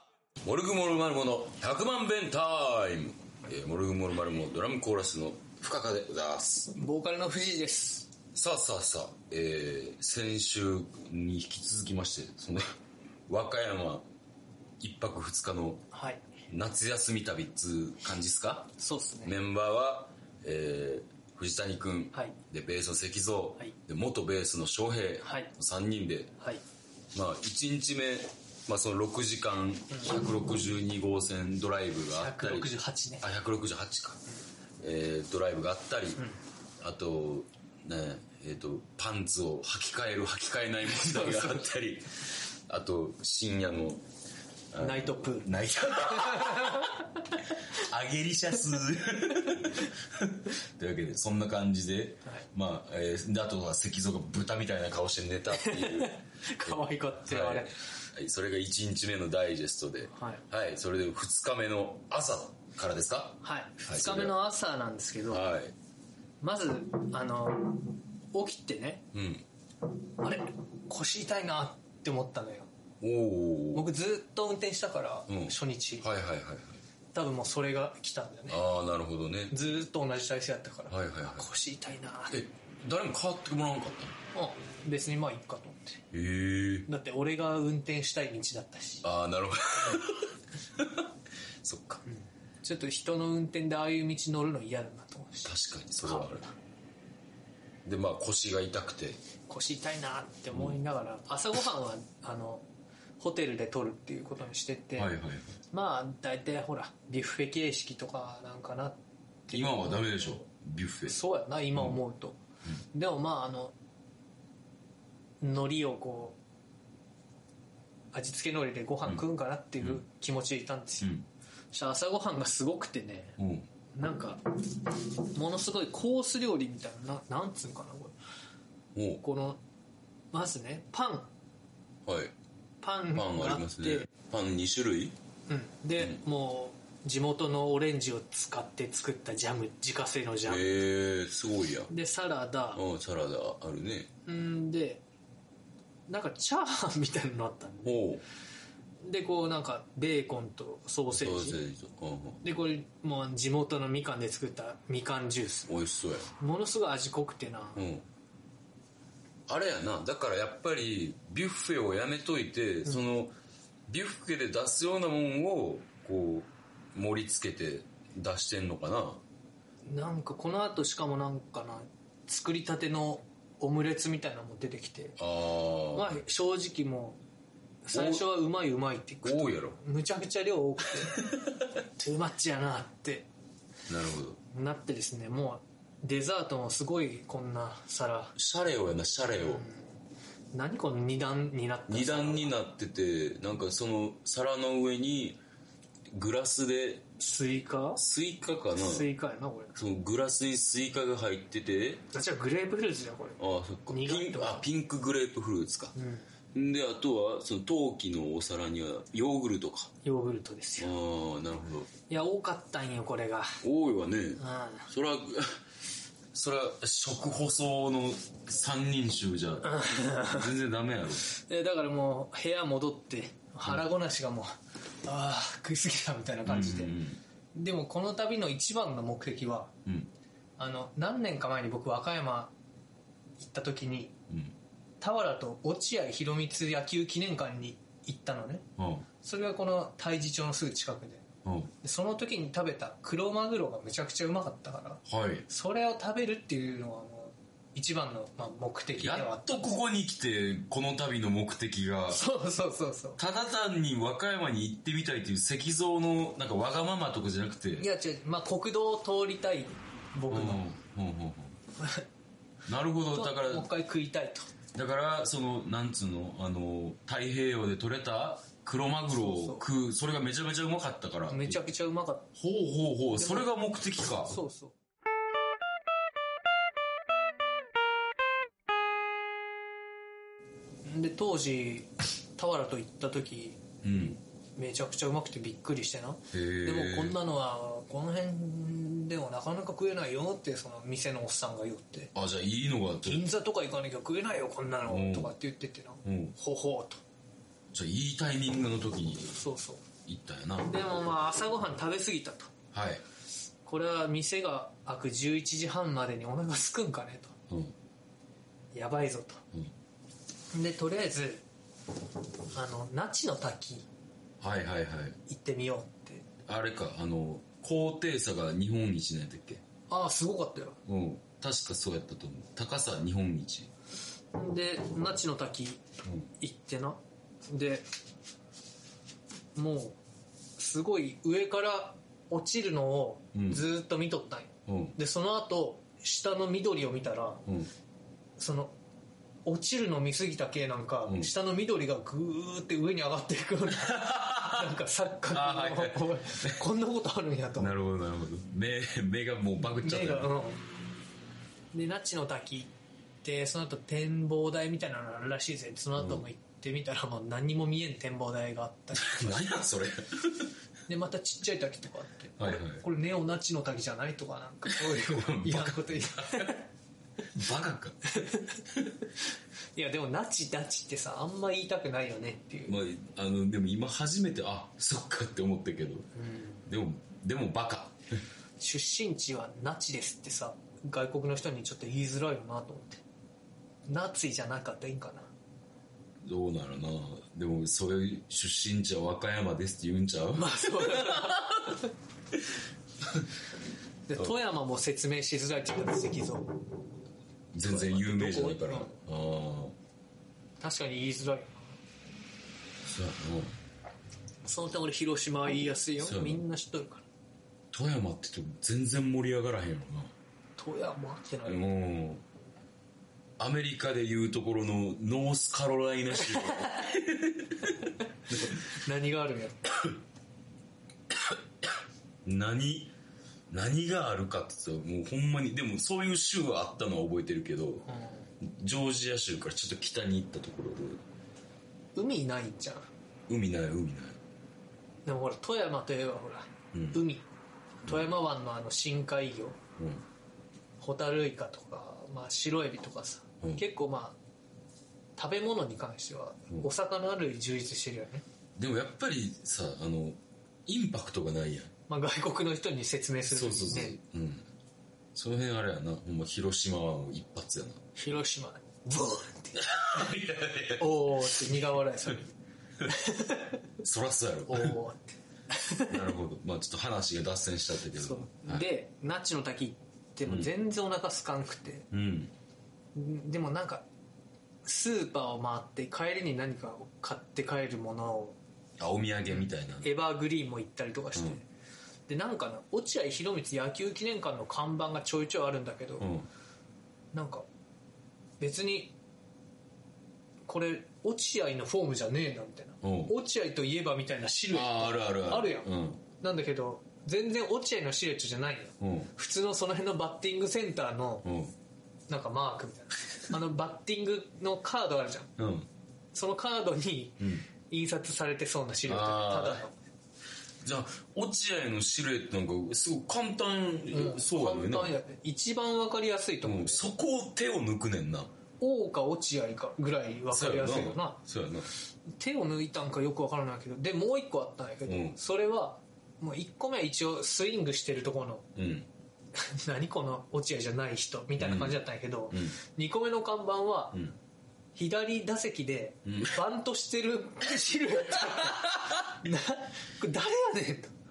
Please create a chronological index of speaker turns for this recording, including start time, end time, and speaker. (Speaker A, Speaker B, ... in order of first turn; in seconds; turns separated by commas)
Speaker A: 0.4-6.8, Speaker B: 6.8-8.1, Speaker A: 8.3-12.7, Speaker A: 13.3-14.1, Speaker A: 14.8-15.9, Speaker B: 15.9-16.2, Speaker A: 16.5-18.7, Speaker B: 18.8-19.4, Speaker A: 19.2-26.3, Speaker B: 25.2-25.5, Speaker A: 27.1-34.2, Speaker B: 32.1-33.2, Speaker A: 34.8-36.2, Speaker A: 36.8-44.0, Speaker B: 41.0-41.6, Speaker A: 44.7-46.9, Speaker B: 44.8-47.4, Speaker A: 47.7-64.3, Speaker B: 55.5-57.8, Speaker B: 60.1-60.4, Speaker B: 63.4-65.5, Speaker A: 65.3-65.7, Speaker B: 66.4-69.1, Speaker A: 69.1-69.4, Speaker B: 70.1-72.7, Speaker A: 73.0-73.9, Speaker B: 73.7-76.1, Speaker A: 75.3-76.8, Speaker B: 77.1-78.6, Speaker A: 78.5-79.6, Speaker B: 79.5-82.5, Speaker A: 80.9-81.5, Speaker A: 82.3-84.2, Speaker B: 84.3-86.0, Speaker A: 86.1-86.9, Speaker B: 86.9-89.1, Speaker A: 89.0-91.1, Speaker A: 91.6-92.0, Speaker B: 92.1-96.5, Speaker A: 95.5-96.5, Speaker A: 97.8-99.2, Speaker B: 99.5-102.7, Speaker A: 100.5-100.8, Speaker B: 103.2-105.1, Speaker A: 105.0-105.6, Speaker B: 105.7-110.5, Speaker A: 109.5-111.2, Speaker B: 111.1-112.4, Speaker B: 112.9-113.8, Speaker B: 115.4-116.4, Speaker B: 118.1-121.1, Speaker B: 121.7-123.4, Speaker A: 123.4-123.7, Speaker B: 123.9-128.2, Speaker A: 128.9-129.2, Speaker B: 129.2-129.6, Speaker B: 130.3-131.3, Speaker A: 132.1-132.3, Speaker B: 132.8-134.1, Speaker A: 133.1-135.2, Speaker B: 135.5-140.7, Speaker A: 140.5-141.9, Speaker B: 141.9-142.8, Speaker A: 142.8-144.1, Speaker B: 144.3-145.0, Speaker B: 146.1-148.0, Speaker A: 147.8-148.2, Speaker B: 149.0-151.6, Speaker A: 151.1-152.4, Speaker B: 152.4-155.7, Speaker A: 155.7-156.3, Speaker B: 156.4-157.8, Speaker A: 157.8-158.1, Speaker A: 159.5-163.3, Speaker A: 163.9-169.2, Speaker B: 169.9-175.2, Speaker A: 175.2-176.2, Speaker B: 175.9-177.2, Speaker B: 177.9-181.3, Speaker A: 177.9-178.2, Speaker A: 179.2-179.8, Speaker A: 181.0-181.5, Speaker B: 181.8-183.3, Speaker A: 183.9-184.4, Speaker B: 184.5-188.4, Speaker A: 188.4-189.7, Speaker B: 189.4-189.9, Speaker B: 190.5-192.5, Speaker A: 191.9-195.4, Speaker A: 196.1-197.1, Speaker B: 197.2-198.0, Speaker A: 198.0-199.1, Speaker B: 198.6-199.8, Speaker A: 199.8-202.0, Speaker B: 202.1-204.7, Speaker A: 203.4-205.9, Speaker B: 205.9-206.3, Speaker A: 206.5-209.9, Speaker B: 210.0-210.9, Speaker A: 210.8-211.9, Speaker B: 212.1-213.6, Speaker A: 213.6-215.6, Speaker B: 214.4-214.9, Speaker A: 216.3-221.2, Speaker B: 219.6-220.5, Speaker B: 221.2-227.0, Speaker A: 226.5-227.2, Speaker B: 227.6-229.7, Speaker B: 230.6-232.5, Speaker B: 233.4-234.2, Speaker B: 235.0-238.7, Speaker A: 238.8-239.1, Speaker B: 239.2-241.2, Speaker A: 241.4-241.7, Speaker B: 241.8-249.7, Speaker A: 245.1-245.5, Speaker A: 249.0-252.2, Speaker B: 252.1-253.2, Speaker A: 253.2-257.9, Speaker B: 257.8-260.7, Speaker A: 260.3-261.6, Speaker B: 261.8-262.0, Speaker A: 262.7-263.7, Speaker B: 263.1-264.5, Speaker A: 264.7-271.6, Speaker B: 269.1-269.6, Speaker B: 271.3-272.3, Speaker A: 272.4-274.4, Speaker B: 273.2-273.5, Speaker B: 274.3-274.8, Speaker B: 280.9-283.6, Speaker A: 283.8-284.2, Speaker B: 284.6-292.1, Speaker A: 286.3-287.2, Speaker A: 292.1-293.2, Speaker B: 293.0-297.0, Speaker A: 294.9-295.4, Speaker A: 296.1-296.4, Speaker A: 297.7-299.4, Speaker B: 299.3-299.9, Speaker A: 300.1-300.9, Speaker B: 300.6-302.5, Speaker A: 302.7-303.0, Speaker B: 303.7-307.4, Speaker A: 307.5-307.7, Speaker B: 308.7-309.4, Speaker B: 310.5-311.4, Speaker B: 312.5-313.9, Speaker A: 314.4-315.2, Speaker B: 315.3-316.3, Speaker A: 316.4-319.6, Speaker B: 319.9-320.8, Speaker A: 320.9-323.7, Speaker B: 324.3-325.8, Speaker B: 326.4-327.9, Speaker B: 329.6-330.0, Speaker B: 330.6-337.4, Speaker A: 333.3-333.6, Speaker A: 334.7-335.0, Speaker B: 338.4-338.7, Speaker B: 339.5-347.7, Speaker A: 343.8-344.7, Speaker A: 345.3-346.6, Speaker A: 347.6-350.3, Speaker B: 349.7-350.6, Speaker B: 351.7-352.7, Speaker B: 353.2-359.5, Speaker A: 356.0-356.2, Speaker A: 358.9-360.5, Speaker B: 360.9-366.6, Speaker A: 362.4-362.8, Speaker A: 364.7-366.6, Speaker A: 367.3-368.0, Speaker B: 368.1-368.6, Speaker B: 369.8-372.8, Speaker A: 372.7-376.1, Speaker B: 376.2-376.6, Speaker A: 376.7-378.0, Speaker B: 378.6-383.0, Speaker B: 383.9-385.3, Speaker A: 386.2-391.5, Speaker B: 390.3-391.9, Speaker B: 394.1-396.6, Speaker A: 397.5-399.8, Speaker B: 397.6-398.9, Speaker B: 400.6-401.8, Speaker A: 402.8-403.6, Speaker B: 404.4-407.1, Speaker A: 406.0-406.4, Speaker A: 407.7-410.1, Speaker B: 410.6-411.6, Speaker A: 411.4-412.2, Speaker A: 413.4-418.6, Speaker B: 416.3-416.8, Speaker B: 418.5-419.7, Speaker A: 421.2-421.7, Speaker A: 422.2-422.9, Speaker A: 423.5-427.9, Speaker B: 427.9-428.2, Speaker A: 428.4-431.0, Speaker B: 432.0-432.9, Speaker A: 433.3-434.2, Speaker B: 435.1-437.3, Speaker A: 436.7-437.0, Speaker B: 437.9-439.6, Speaker A: 439.8-440.1, Speaker B: 440.8-444.2, Speaker B: 445.2-448.2, Speaker A: 448.6-451.7, Speaker B: 451.9-454.0, Speaker A: 453.3-454.5, Speaker A: 455.1-457.8, Speaker B: 458.0-460.1, Speaker A: 459.6-461.4, Speaker B: 460.8-462.3, Speaker B: 462.9-463.6, Speaker A: 463.8-464.8, Speaker B: 464.5-466.0, Speaker A: 465.9-468.7, Speaker B: 468.0-471.9, Speaker A: 470.3-470.5, Speaker A: 471.9-472.3, Speaker B: 472.9-473.9, Speaker B: 474.6-478.4, Speaker A: 478.8-479.9, Speaker B: 479.3-481.4, Speaker B: 482.1-486.1, Speaker A: 486.0-486.3, Speaker B: 487.1-487.5, Speaker B: 488.4-488.9, Speaker B: 490.5-501.3, Speaker A: 492.8-493.1, Speaker A: 494.5-496.0, Speaker A: 498.8-499.1, Speaker A: 501.2-501.5, Speaker B: 502.1-505.3, Speaker A: 505.4-505.7, Speaker B: 506.1-509.8, Speaker A: 507.2-507.5, Speaker A: 508.9-509.6, Speaker A: 510.6-515.0, Speaker B: 513.9-516.8, Speaker A: 516.4-518.3, Speaker B: 518.6-521.2, Speaker A: 520.3-521.7, Speaker B: 522.2-528.5, Speaker A: 524.9-525.2, Speaker A: 528.6-528.9, Speaker B: 529.4-534.0, Speaker A: 531.4-532.5, Speaker B: 534.8-540.9, Speaker A: 536.1-536.4, Speaker A: 538.2-539.1